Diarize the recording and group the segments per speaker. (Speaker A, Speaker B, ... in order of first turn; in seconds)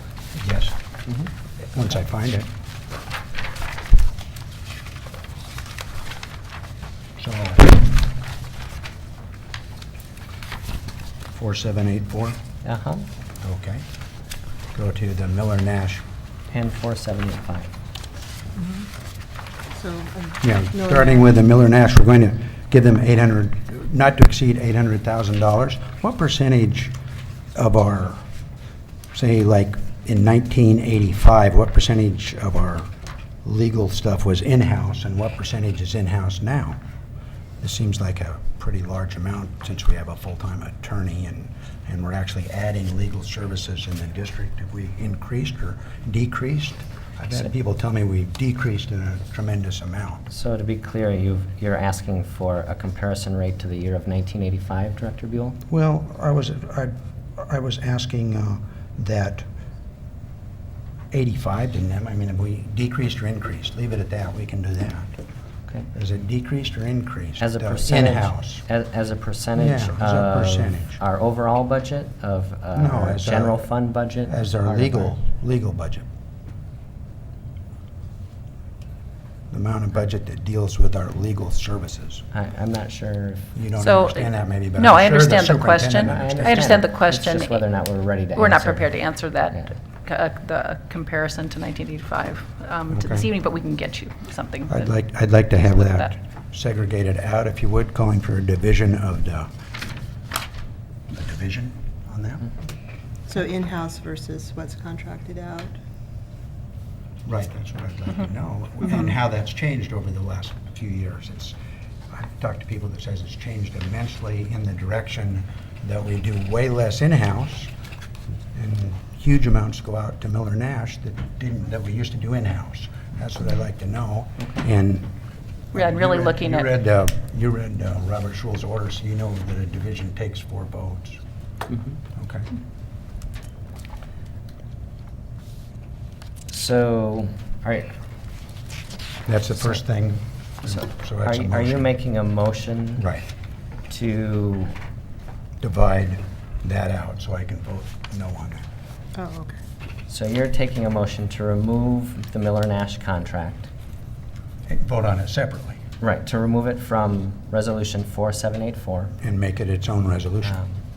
Speaker A: 0.3-0.8, 1.7-2.5, 7.2-7.9, 11.3-12.4, 13.4-13.8, 14.7-16.0, 20.4-26.9, 27.6-28.2, 29.1-32.9, 33.4-36.8, 37.6-50.3, 55.7-59.5, 61.1-65.1, 65.9-68.7, 69.6-71.0, 72.8-73.7, 74.3-76.0, 79.5-82.2, 83.5-86.8, 92.9-93.3, 94.7-99.5, 101.1-102.5, 107.2-111.5, 112.1-117.7, 118.5-125.1, 125.7-131.2, 132.2-132.5, 139.3-141.9, 143.0-143.3, 145.6-148.6, 154.7-155.8, 159.2-160.6
Speaker B: 12.6-13.1, 16.5-17.7, 50.3-55.6, 67.4-75.2, 82.3-83.5, 86.0-88.9, 136.5-137.9, 140.6-143.1, 143.9-144.7, 150.1-153.7, 156.0-159.2, 160.5-160.8
Speaker C: 18.6-18.9, 19.7-21.3, 103.3-105.7, 149.2-149.6
Speaker D: 83.8-87.7, 88.4-94.9, 95.6-96.1, 125.7-126.7